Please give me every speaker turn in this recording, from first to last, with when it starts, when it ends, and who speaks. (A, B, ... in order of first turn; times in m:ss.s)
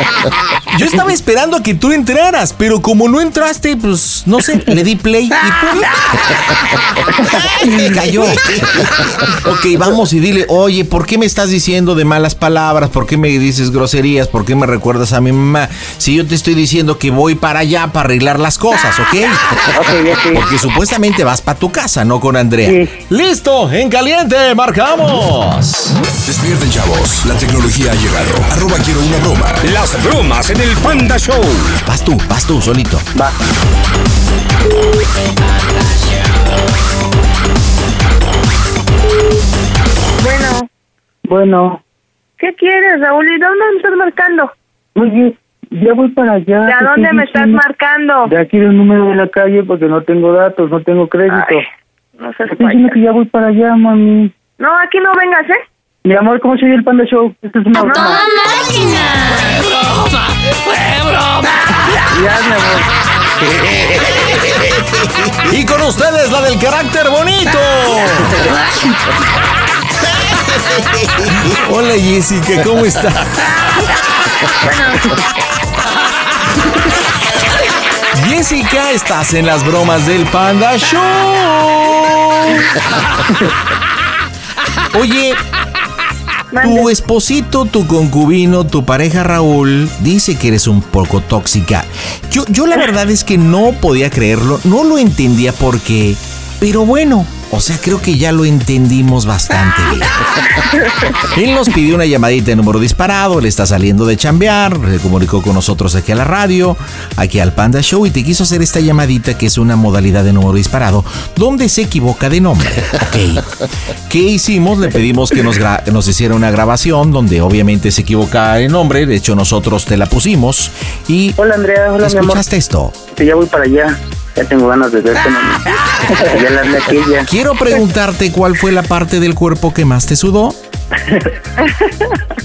0:00.7-0:05.9 A
0:07.4-0:19.4 A
0:19.7-0:20.4 B
0:20.3-0:26.0 A
0:22.6-0:22.9 B
0:26.2-0:29.6 C
0:29.6-0:31.8 D
0:31.8-0:33.1 A
0:40.2-0:40.7 E
0:41.2-0:41.8 B
0:42.4-0:44.5 E
0:44.9-0:47.6 B
0:46.6-0:48.3 E
0:48.2-0:51.6 B
0:51.3-0:51.6 E
0:52.2-0:53.0 E
0:52.5-0:54.3 B
0:54.6-0:55.6 E
0:56.0-0:58.2 B
0:57.8-0:58.2 E
1:02.0-1:02.9 B
1:05.4-1:08.4 A
1:11.2-1:13.4 A
1:14.6-1:15.1 E
1:18.1-1:22.7 A
1:24.9-1:25.4 A
1:26.5-1:26.9 E
1:26.6-1:40.2 A
1:41.3-1:53.5 A
1:54.1-2:01.4 A
2:01.4-2:02.4 B
2:02.0-2:03.0 A
2:03.0-2:07.3 B
2:07.2-2:10.6 A
2:11.6-2:11.9 E